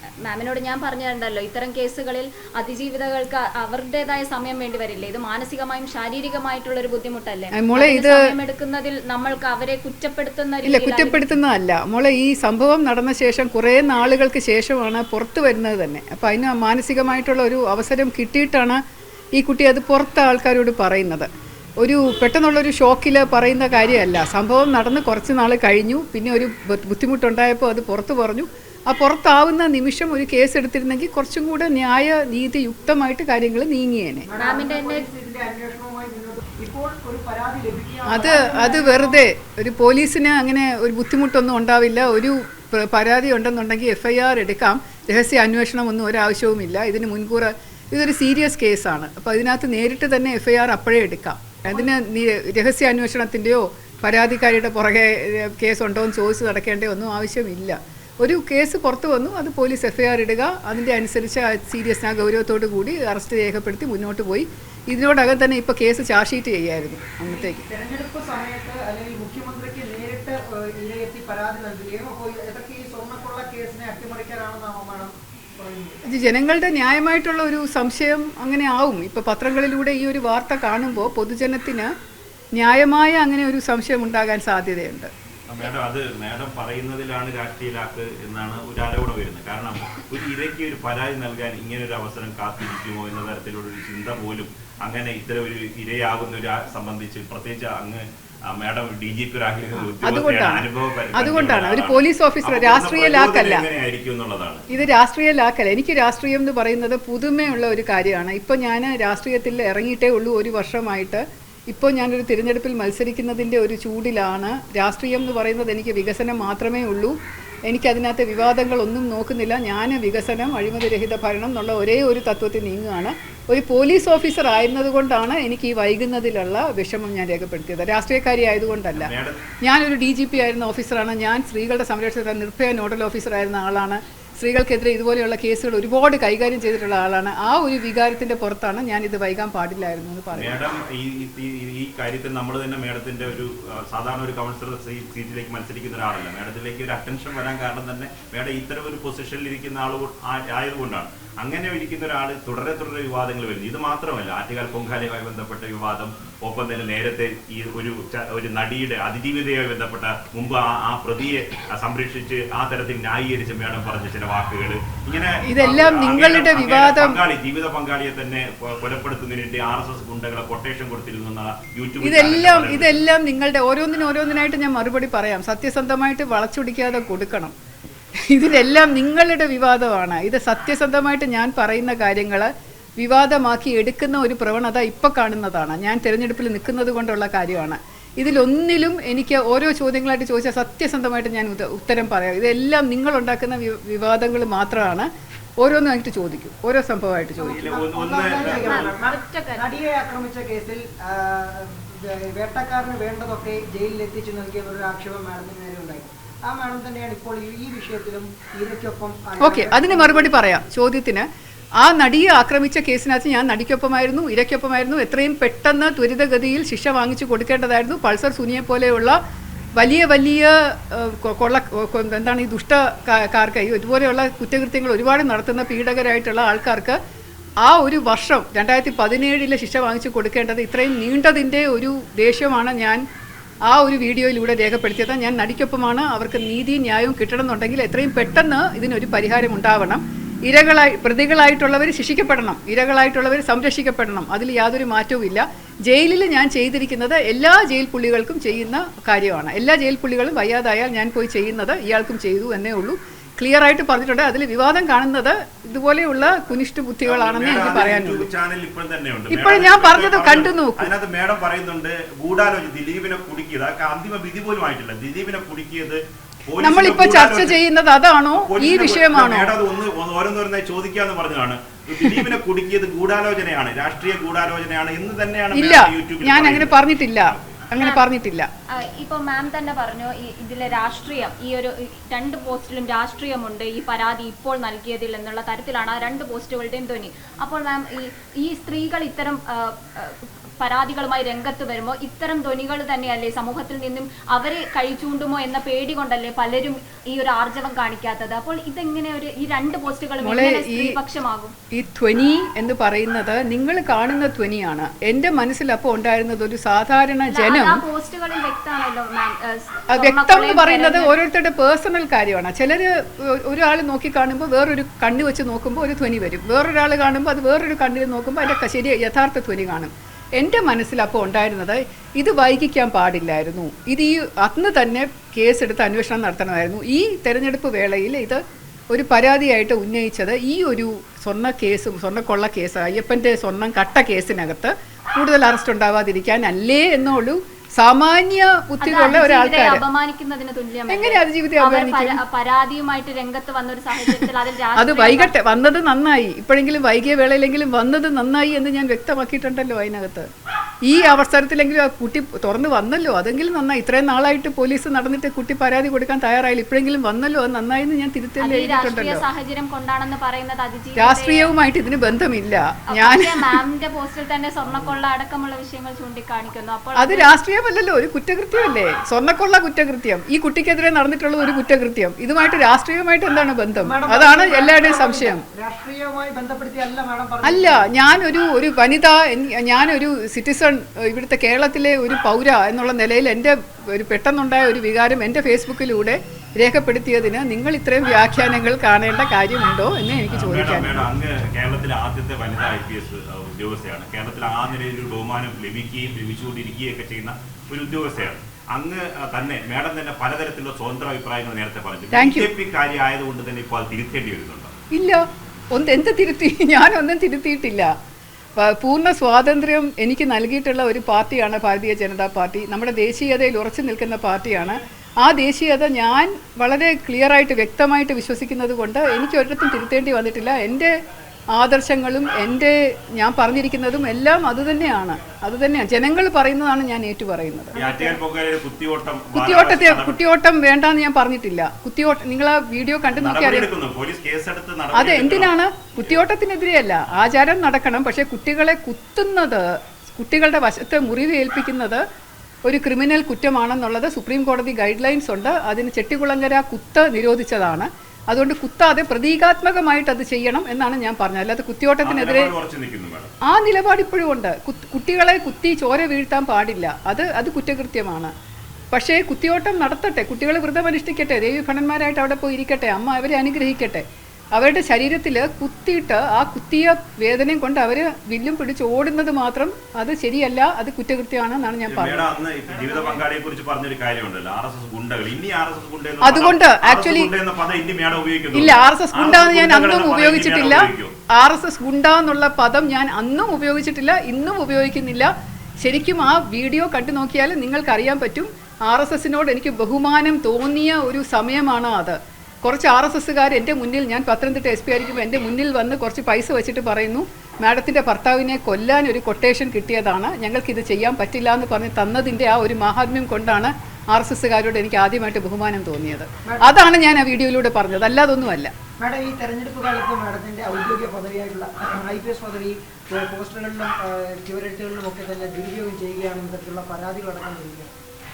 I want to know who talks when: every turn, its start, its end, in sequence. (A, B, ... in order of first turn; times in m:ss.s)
0:00.2-0:11.3 A
0:07.6-0:08.3 B
0:10.6-0:18.8 B
0:19.4-0:21.3 B
0:21.8-0:34.3 B
0:34.3-0:39.2 C
0:34.4-0:35.1 A
0:38.1-1:07.6 B
1:07.2-1:16.0 C
1:16.1-1:21.9 B
1:22.6-1:25.1 B
1:25.5-1:44.6 D
1:39.8-1:43.6 B
1:44.7-1:57.1 B
1:57.7-2:20.6 B
2:08.9-2:09.4 D
2:20.3-2:53.0 D
2:45.4-2:47.2 B
2:52.0-2:57.5 B
2:58.3-3:15.1 B
3:15.6-3:17.6 B
3:17.4-3:19.0 D
3:17.5-3:30.3 C
3:18.4-3:19.6 A
3:29.4-3:31.2 B
3:31.8-3:39.2 B
3:39.8-3:47.0 B
3:47.6-3:53.0 B
3:53.7-4:18.3 B
4:17.0-4:27.6 D
4:19.3-4:20.9 B
4:26.6-4:29.5 B
4:28.4-4:37.6 D
4:35.5-4:38.5 B
4:37.8-4:38.0 A
4:38.8-5:01.5 A
5:00.2-5:01.0 B
5:01.7-5:07.8 B
5:07.3-5:11.1 A
5:09.9-5:28.4 B
5:28.9-5:39.8 B
5:38.8-5:45.6 A
5:40.9-5:42.2 B
5:44.8-5:50.3 B
5:50.9-5:59.2 B
5:58.4-6:01.5 A
6:01.0-6:03.6 B
6:02.9-6:07.3 A
6:07.0-6:15.4 B
6:13.8-6:17.9 C
6:17.4-6:31.1 B
6:30.3-6:44.7 D
6:42.1-6:42.5 B
6:44.9-6:47.9 B
6:48.6-7:00.9 B
7:01.5-7:08.2 B
7:07.7-7:10.2 D
7:09.3-7:13.7 B
7:13.1-7:16.2 D
7:14.9-7:22.0 B
7:22.6-7:32.5 B
7:32.0-7:33.3 D
7:33.4-7:38.3 B
7:38.9-7:52.3 B
7:51.9-8:01.1 D
7:56.2-7:57.3 B
7:58.5-8:05.3 B
8:05.8-8:28.7 B
8:26.4-8:26.7 C
8:29.0-8:37.9 C